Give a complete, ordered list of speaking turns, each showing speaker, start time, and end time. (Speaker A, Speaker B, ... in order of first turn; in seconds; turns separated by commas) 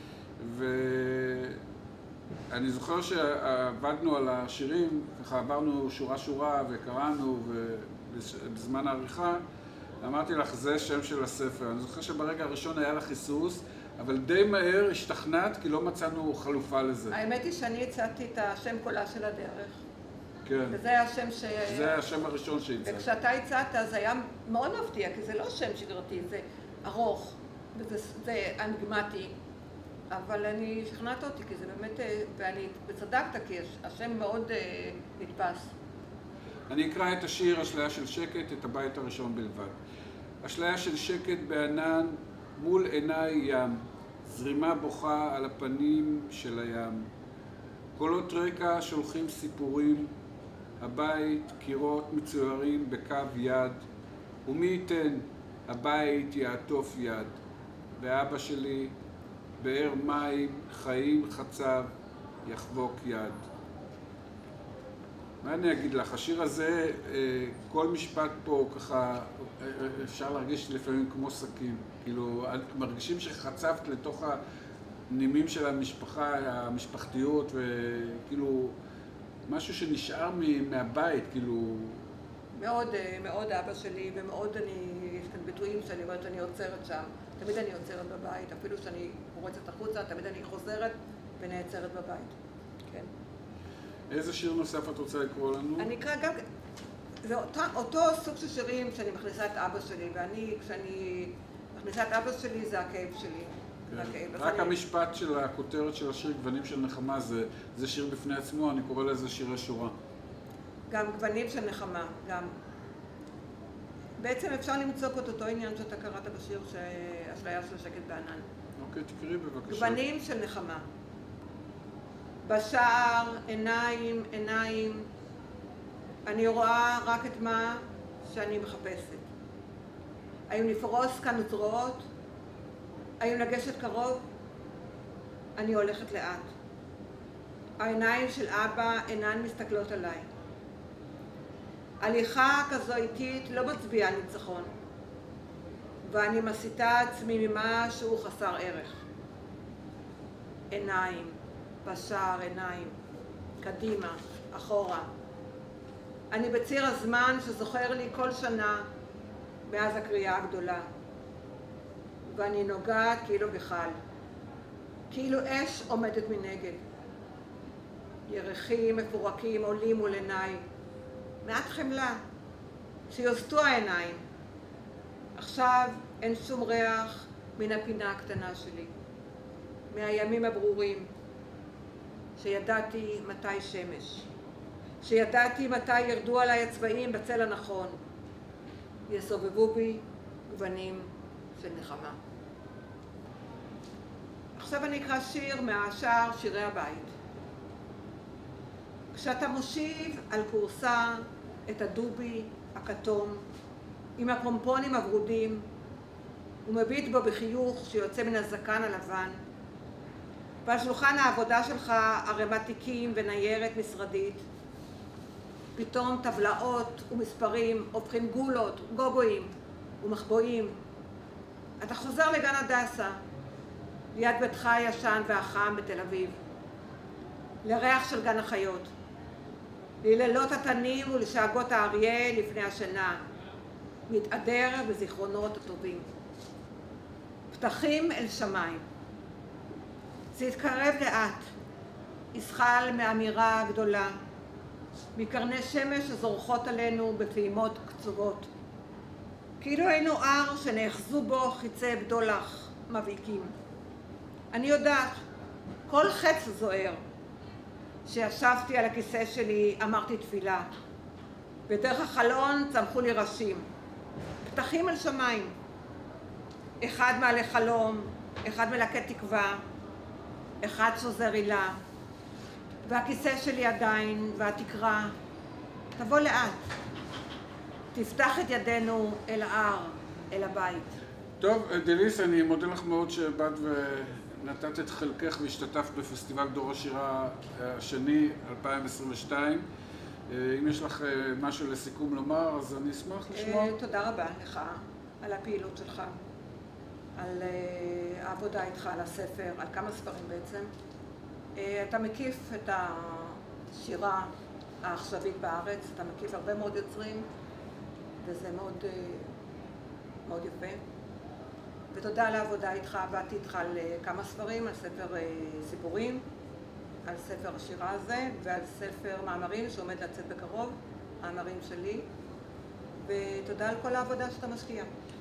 Speaker A: 0.4-1.6, Speaker A: 2.5-9.4, Speaker A: 10.0-17.1, Speaker B: 17.1-19.8, Speaker A: 20.4-20.8, Speaker B: 20.7-22.0, Speaker A: 21.7-23.0, Speaker B: 22.8-29.3, Speaker B: 30.1-35.7, Speaker A: 36.7-39.8, Speaker A: 40.4-47.1, Speaker A: 48.0-50.1, Speaker A: 50.8-53.8, Speaker A: 54.5-57.3, Speaker A: 58.0-58.9, Speaker A: 59.6-61.9, Speaker A: 62.4-63.4, Speaker A: 65.4-74.4, Speaker A: 75.1-78.7, Speaker A: 79.5-82.1, Speaker B: 82.5-92.3, Speaker A: 94.1-95.9, Speaker B: 95.8-96.4, Speaker B: 97.2-104.7, Speaker A: 103.9-109.9, Speaker B: 110.9-112.5, Speaker B: 114.2-118.4, Speaker A: 118.8-120.0, Speaker B: 119.7-120.8, Speaker B: 122.4-125.0, Speaker B: 126.2-129.2, Speaker B: 130.5-132.0, Speaker B: 133.2-134.2, Speaker B: 135.6-136.4, Speaker B: 137.8-140.2, Speaker B: 142.0-144.7, Speaker B: 146.0-149.0, Speaker B: 150.7-152.9, Speaker B: 153.6-155.1, Speaker B: 156.3-158.8, Speaker B: 159.7-160.8, Speaker B: 162.3-163.9, Speaker B: 165.1-166.8, Speaker B: 168.3-170.6, Speaker B: 171.4-172.2, Speaker B: 173.1-174.2, Speaker B: 175.3-178.9, Speaker B: 179.9-181.1, Speaker B: 182.4-184.3, Speaker B: 185.0-187.9, Speaker B: 189.1-192.2, Speaker B: 194.6-197.1, Speaker B: 199.1-203.4, Speaker B: 204.2-205.6, Speaker B: 206.7-209.3, Speaker B: 210.6-214.4, Speaker B: 215.8-220.7, Speaker B: 221.8-223.2, Speaker B: 224.1-226.4, Speaker B: 227.6-228.9, Speaker B: 230.0-233.2, Speaker B: 234.1-236.1, Speaker B: 237.5-238.8, Speaker B: 240.3-241.4, Speaker B: 242.3-244.1, Speaker B: 245.1-248.5, Speaker B: 249.6-253.5, Speaker B: 254.5-255.2, Speaker B: 255.9-257.0, Speaker B: 258.1-260.6, Speaker B: 261.7-263.6, Speaker B: 264.4-265.5, Speaker B: 266.8-269.6, Speaker B: 270.6-271.8, Speaker B: 272.9-275.1, Speaker B: 276.0-276.6, Speaker B: 277.9-280.9, Speaker A: 281.4-289.6, Speaker A: 290.3-293.7, Speaker B: 293.3-296.1, Speaker B: 297.2-300.7, Speaker B: 301.6-304.3, Speaker B: 304.8-307.3, Speaker B: 308.2-309.3, Speaker B: 310.2-310.8, Speaker B: 311.9-316.2, Speaker B: 317.1-322.1, Speaker B: 323.0-324.9